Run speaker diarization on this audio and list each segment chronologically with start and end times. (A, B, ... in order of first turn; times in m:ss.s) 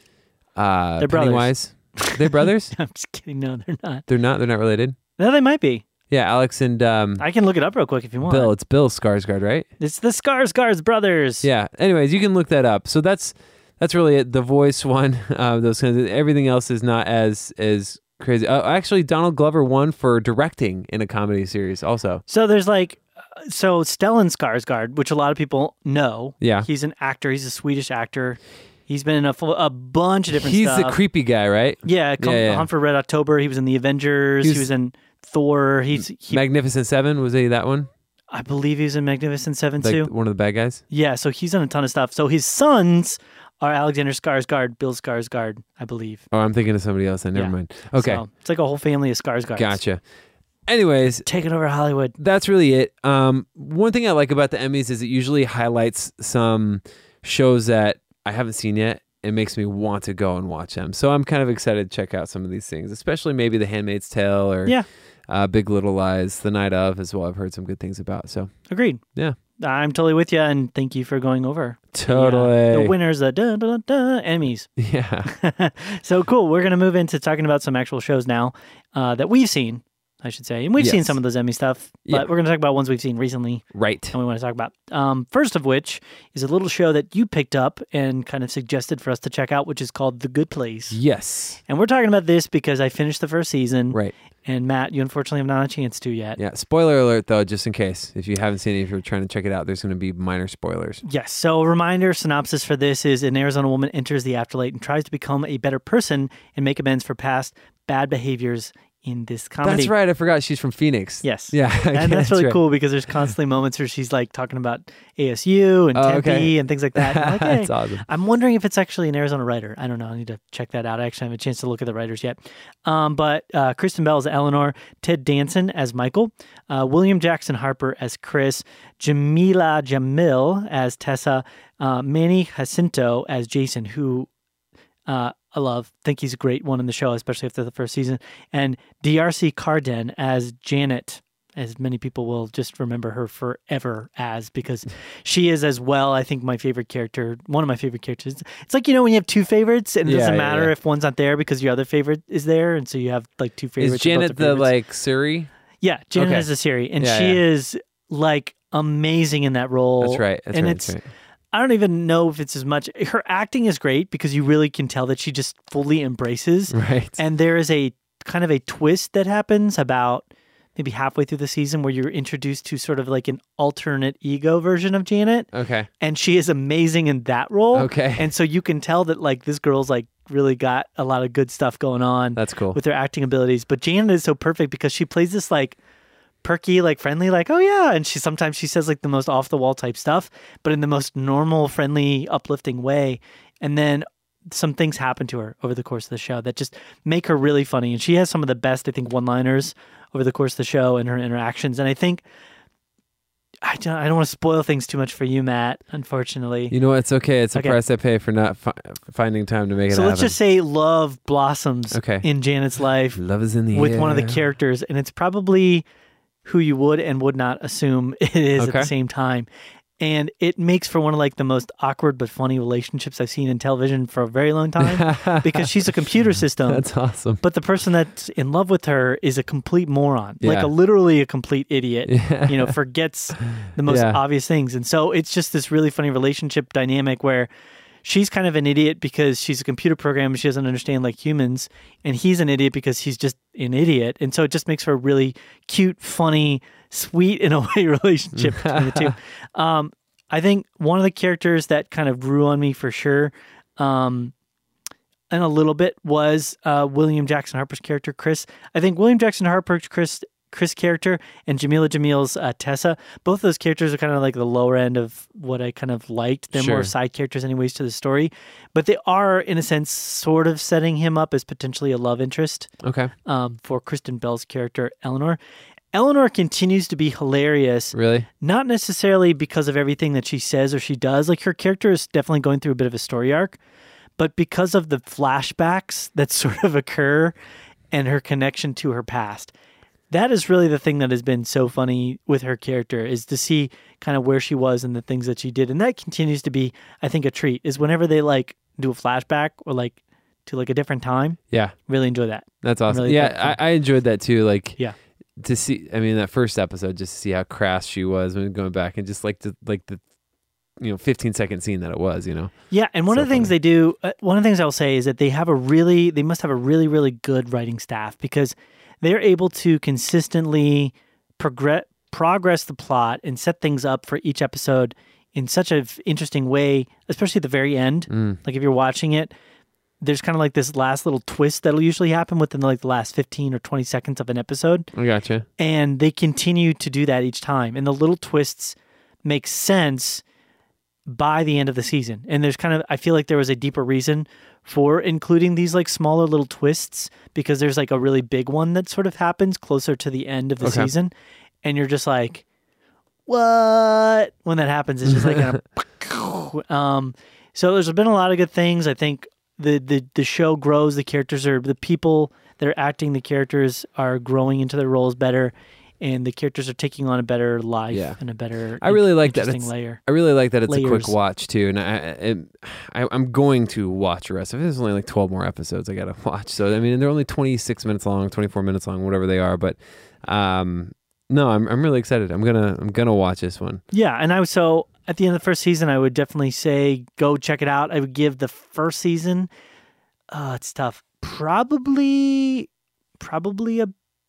0:00.6-0:02.7 A
0:01.0-0:04.0 B
0:04.1-0:05.0 A
0:05.2-0:05.8 B
0:06.1-0:07.2 A
0:07.2-0:08.5 B
0:08.3-0:09.7 A
0:09.8-0:11.5 B
0:11.4-0:22.2 A
0:22.3-0:31.0 B
0:26.4-0:26.7 A
0:30.3-0:32.7 A
0:31.8-0:36.4 B
0:36.3-0:37.9 A
0:38.3-0:40.1 B
0:39.8-0:40.8 A
0:40.9-0:46.2 B
0:46.3-0:48.2 A
0:47.3-0:49.8 B
0:49.6-0:50.0 A
0:50.7-0:51.3 A
0:51.2-0:52.1 B
0:52.2-1:04.8 A
1:05.3-1:08.5 A
1:08.7-1:09.0 B
1:09.6-1:14.7 B
1:11.9-1:12.9 A
1:14.8-1:15.3 A
1:15.2-1:31.0 B
1:20.8-1:21.2 A
1:23.7-1:24.1 A
1:30.9-1:31.6 A
1:31.7-1:36.4 B
1:36.4-1:41.0 A
1:41.0-1:49.9 B
1:49.6-1:52.6 A
1:51.2-2:14.3 B
1:55.9-1:58.0 A
2:15.1-2:34.7 B
2:30.0-2:30.7 A
2:33.8-2:35.5 A
2:35.8-2:40.9 B
2:36.1-2:36.5 A
2:37.0-2:37.4 A
2:40.0-2:41.0 A
2:41.5-3:05.8 B
2:46.7-2:47.2 A
2:55.5-2:55.9 A
2:57.7-2:58.3 A
3:02.4-3:02.8 A
3:06.4-3:22.2 B
3:23.6-3:26.7 B
3:26.7-3:30.3 A
3:29.9-3:33.2 B
3:31.9-3:32.2 A
3:33.1-3:34.4 A
3:33.7-3:35.8 B
3:36.4-3:39.5 B
3:38.6-3:38.9 A
3:40.0-3:46.8 B
3:44.8-3:45.9 A
3:46.7-3:47.4 A
3:47.4-3:57.5 B
3:50.4-3:50.7 A
3:52.1-3:52.7 A
3:53.4-3:54.2 A
3:58.0-4:14.3 B
4:08.4-4:09.1 A
4:15.3-4:32.7 B
4:26.5-4:26.9 A
4:32.8-4:33.1 A
4:33.2-4:35.4 B
4:35.9-4:43.6 B
4:37.9-4:38.3 A
4:44.2-4:47.3 B
4:47.9-4:49.5 B
4:50.1-5:03.6 B
5:02.6-5:04.8 A
5:05.4-5:10.0 A
5:10.8-5:12.5 A
5:12.7-5:29.3 B
5:13.1-5:13.5 A
5:28.1-5:28.4 A
5:30.0-5:34.9 B
5:34.9-5:35.4 A
5:35.6-5:40.2 B
5:41.1-5:51.1 B
5:50.6-5:50.9 A
5:51.6-5:52.4 B
5:53.3-6:10.0 B
5:55.0-5:55.6 A
6:07.9-6:08.2 A
6:08.8-6:23.8 A
6:10.7-6:11.1 B
6:23.9-6:29.5 B
6:30.3-6:32.7 B
6:33.2-6:33.9 B